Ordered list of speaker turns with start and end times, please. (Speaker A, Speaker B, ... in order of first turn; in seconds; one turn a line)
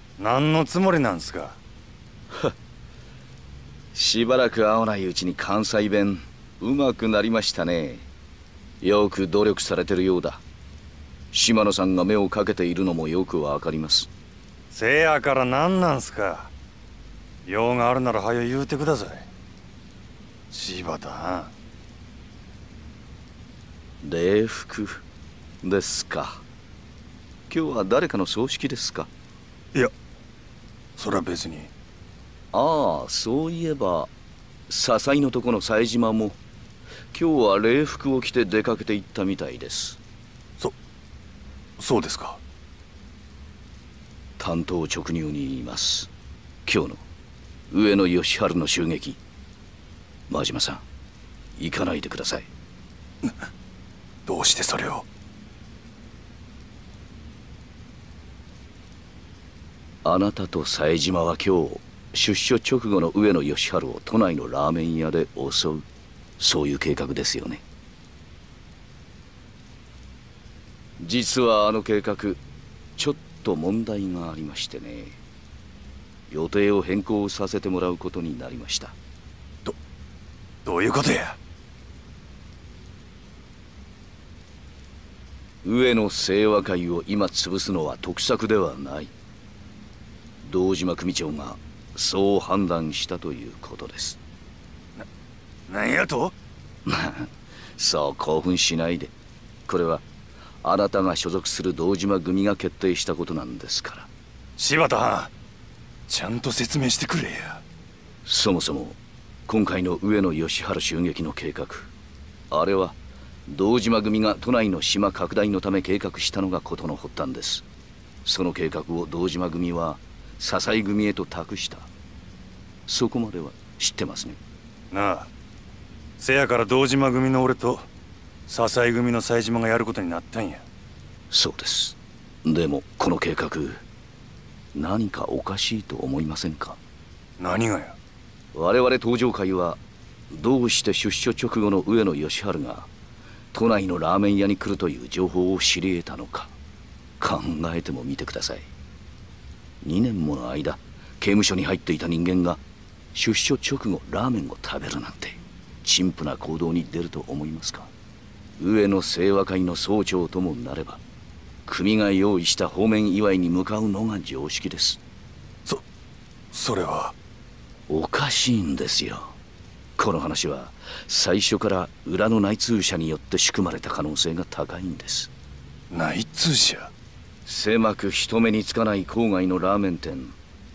Speaker A: 0.2-1.6
Speaker B: 3.9-8.1
Speaker B: 8.8-10.4
Speaker B: 11.3-14.1
Speaker A: 14.7-16.5
Speaker A: 17.4-19.3
Speaker A: 20.5-21.5
Speaker B: 24.0-25.0
Speaker B: 25.6-26.4
Speaker B: 27.5-29.1
Speaker A: 31.0-31.7
Speaker B: 32.5-34.1
Speaker B: 34.7-36.4
Speaker B: 37.1-40.0
Speaker A: 41.8-42.4
Speaker B: 44.4-46.1
Speaker B: 46.6-47.0
Speaker B: 47.7-49.2
Speaker B: 50.3-50.8
Speaker B: 51.6-52.5
Speaker A: 54.3-55.1
Speaker B: 60.0-65.9
Speaker B: 66.4-67.6
Speaker B: 71.0-72.4
Speaker B: 73.0-75.2
Speaker B: 76.3-79.0
Speaker A: 80.7-81.4
Speaker B: 85.6-89.1
Speaker B: 90.4-94.2
Speaker A: 95.7-96.3
Speaker B: 96.8-99.1
Speaker B: 99.7-100.0
Speaker B: 100.6-104.1
Speaker A: 104.6-105.3
Speaker A: 106.1-107.6
Speaker B: 108.2-111.9
Speaker B: 112.5-117.6
Speaker B: 118.2-121.9
Speaker B: 122.9-124.4
Speaker A: 124.9-125.3
Speaker A: 126.2-127.9
Speaker A: 128.5-130.6
Speaker B: 131.3-133.8
Speaker B: 134.7-136.8
Speaker A: 137.4-138.0
Speaker B: 138.5-142.9
Speaker B: 143.5-146.5
Speaker B: 147.2-148.7
Speaker B: 149.8-152.6
Speaker B: 153.1-157.9
Speaker B: 158.6-161.0
Speaker B: 161.7-165.0
Speaker A: 166.5-167.2
Speaker B: 167.9-169.3
Speaker B: 170.0-175.3
Speaker A: 175.9-176.9
Speaker B: 177.4-180.4